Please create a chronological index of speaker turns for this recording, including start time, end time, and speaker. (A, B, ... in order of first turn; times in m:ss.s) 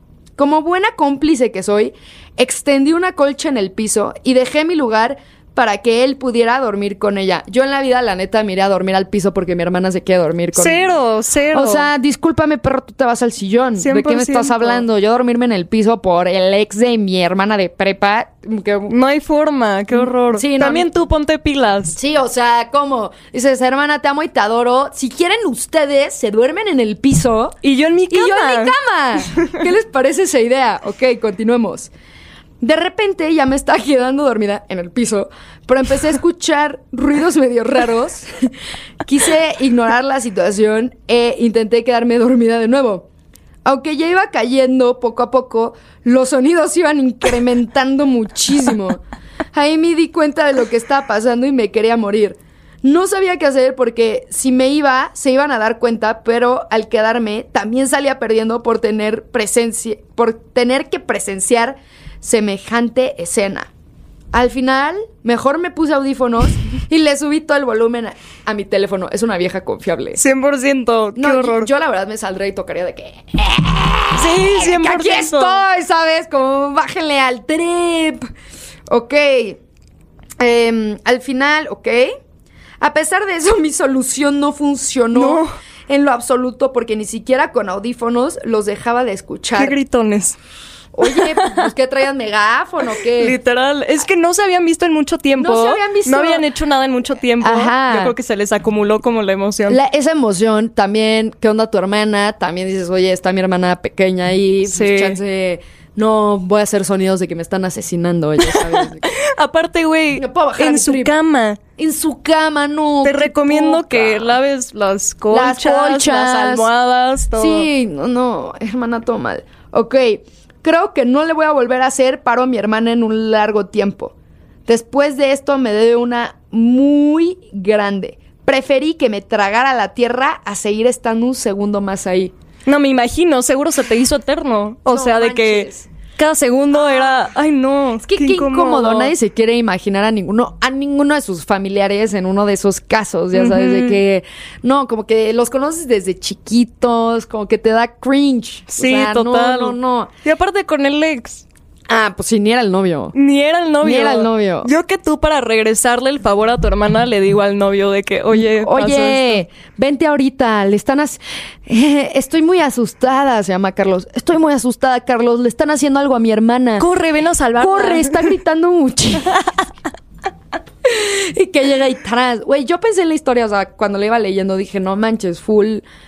0:00.4-0:11.0 A
0:10.6-0:11.9 B
0:11.5-0:19.0 A
0:13.8-0:14.8 B
0:18.9-0:22.0 B
0:20.3-0:20.9 A
0:22.0-0:27.6 A
0:27.6-0:28.8 B
0:28.1-0:31.9 A
0:32.6-0:38.5 A
0:39.0-0:43.1 A
0:43.6-0:49.0 A
0:49.5-1:03.7 A
1:04.3-1:10.2 A
1:10.2-1:11.7 B
1:11.2-1:18.3 A
1:14.2-1:15.6 B
1:18.9-1:19.6 A
1:20.4-1:22.2 A
1:22.8-1:29.8 A
1:25.1-1:25.5 B
1:29.6-1:30.4 B
1:30.9-1:33.4 A
1:31.0-1:31.7 B
1:33.2-1:39.8 B
1:35.4-1:36.4 A
1:37.4-1:38.2 A
1:39.7-1:49.2 A
1:44.7-1:45.2 B
1:48.4-1:51.6 B
1:50.2-1:51.1 A
1:51.8-1:54.4 A
1:53.0-1:57.7 B
1:55.3-1:56.7 A
1:57.4-2:04.1 A
2:04.7-2:12.3 A
2:12.7-2:19.1 B
2:14.9-2:15.9 A
2:16.7-2:17.2 A
2:18.0-2:30.1 A
2:23.3-2:24.0 B
2:28.7-2:31.5 B
2:31.9-2:33.2 A
2:33.1-2:39.4 B
2:33.8-2:34.7 A
2:38.3-2:46.8 A
2:46.8-2:48.3 B
2:47.6-2:49.4 A
2:50.8-2:55.9 A